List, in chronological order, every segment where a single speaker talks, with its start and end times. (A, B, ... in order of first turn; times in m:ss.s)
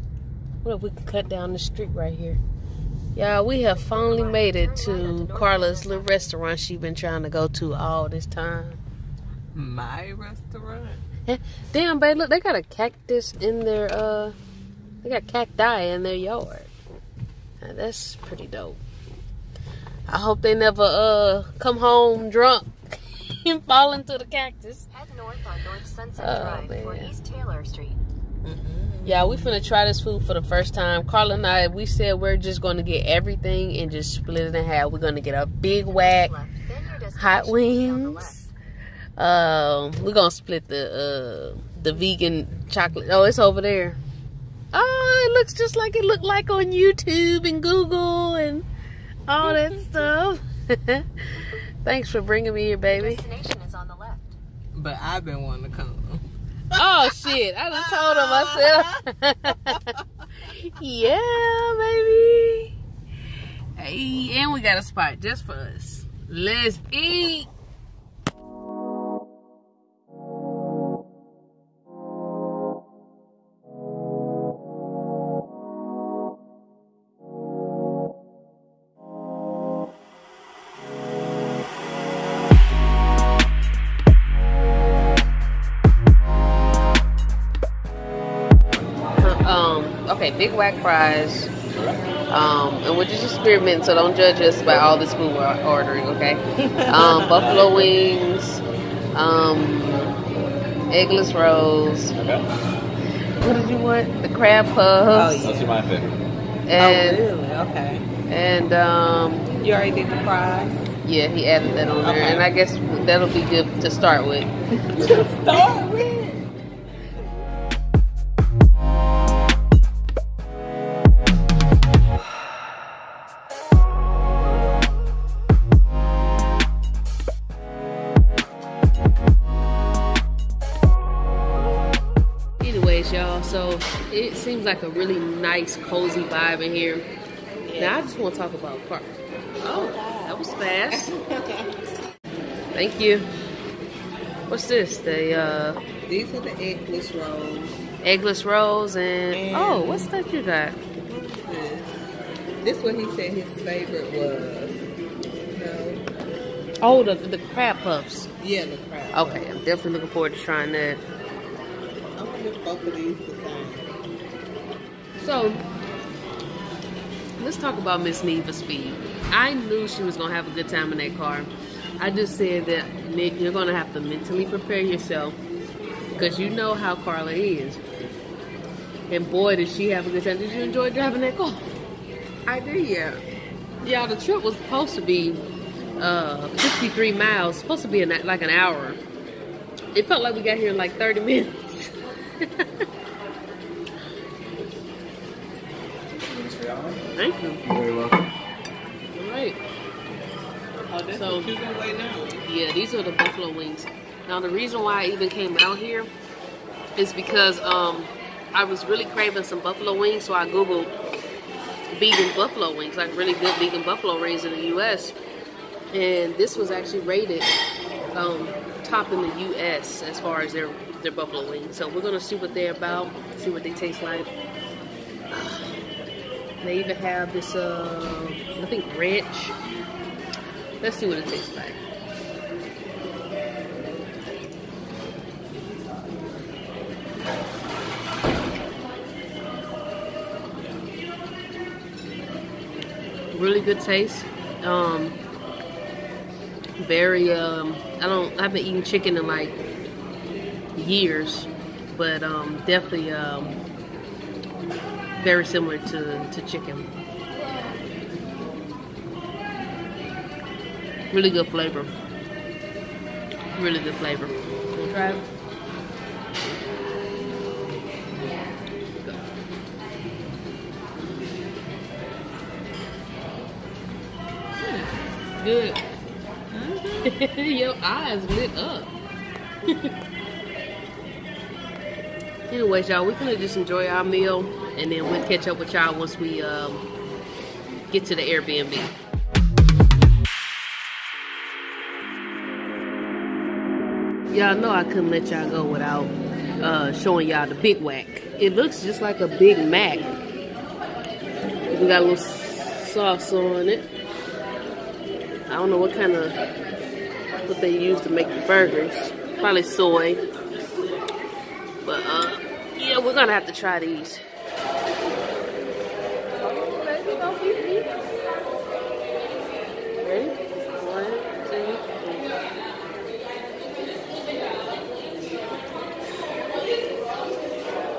0:00.6-0:02.4 A
0:03.1-0:08.8 A
0:03.7-0:06.1 B
0:09.5-0:11.0 C
0:11.3-0:14.3 A
0:15.0-0:16.7 A
0:17.6-0:18.8 A
0:20.1-0:24.9 A
0:24.9-0:28.0 B
0:26.2-0:27.1 A
0:28.4-0:29.6 C
0:29.0-0:36.3 A
0:35.7-0:38.5 B
0:37.1-0:38.4 A
0:39.2-0:44.0 A
0:44.7-0:48.6 A
0:49.3-0:53.2 A
0:49.4-0:50.1 C
0:52.8-0:54.4 B
0:54.7-0:59.0 C
0:56.7-1:00.0 A
1:00.5-1:02.7 A
1:03.8-1:07.5 A
1:29.2-1:31.5 A
1:32.3-1:38.6 A
1:36.6-1:37.7 C
1:39.1-1:40.1 A
1:40.9-1:42.1 A
1:42.1-1:42.4 D
1:43.4-1:45.5 A
1:45.1-1:45.7 C
1:45.4-1:46.2 D
1:46.7-1:47.2 A
1:46.8-1:48.0 C
1:48.3-1:49.5 A
1:49.5-1:50.9 C
1:51.0-1:54.5 A
1:52.0-1:52.5 C
1:54.9-1:56.5 C
2:12.6-2:17.0 A
2:17.6-2:18.0 C
2:17.8-2:21.1 A
2:19.6-2:21.7 C
2:22.7-2:23.3 A
2:24.5-2:25.8 A
2:26.1-2:27.8 C
2:28.0-2:30.8 A
2:29.3-2:30.1 C
2:31.0-2:32.1 C
2:32.6-2:34.9 C
2:35.5-2:36.0 C
2:36.8-2:38.3 A
2:38.4-2:39.5 C
2:39.1-2:41.0 A
2:42.2-2:43.9 C
2:45.2-2:45.6 A
2:47.4-2:55.4 A
2:56.2-2:57.8 A
2:59.1-3:01.7 A
3:02.4-3:03.2 C
3:03.8-3:05.4 A
3:06.0-3:09.0 A
3:09.9-3:12.6 A
3:16.3-3:17.0 D
3:17.1-3:17.6 A
3:17.6-3:18.3 D
3:19.1-3:19.6 A
3:20.9-3:22.4 C
3:21.1-3:21.5 A
3:22.4-3:26.1 A
3:27.0-3:30.9 A
3:31.9-3:35.2 A
3:35.9-3:37.5 A
3:38.1-3:44.3 A
3:45.3-3:45.8 A
3:46.6-3:49.6 A
3:50.8-3:51.8 A
4:03.3-4:05.2 A
4:06.8-4:09.6 A
4:10.8-4:13.6 A
4:15.2-4:16.9 A
4:21.1-4:21.9 A
4:23.5-4:25.2 A
4:34.6-4:34.9 C
4:35.4-4:35.8 A
4:36.5-4:37.1 C
4:37.1-4:38.9 A
4:39.7-4:39.9 A
4:42.5-4:46.8 A
4:47.9-4:48.9 A
4:54.3-5:00.1 A
5:01.7-5:03.9 A
5:05.5-5:06.4 A
5:07.4-5:10.2 A
5:11.8-5:14.2 A
5:16.4-5:17.9 A
5:20.0-5:22.3 A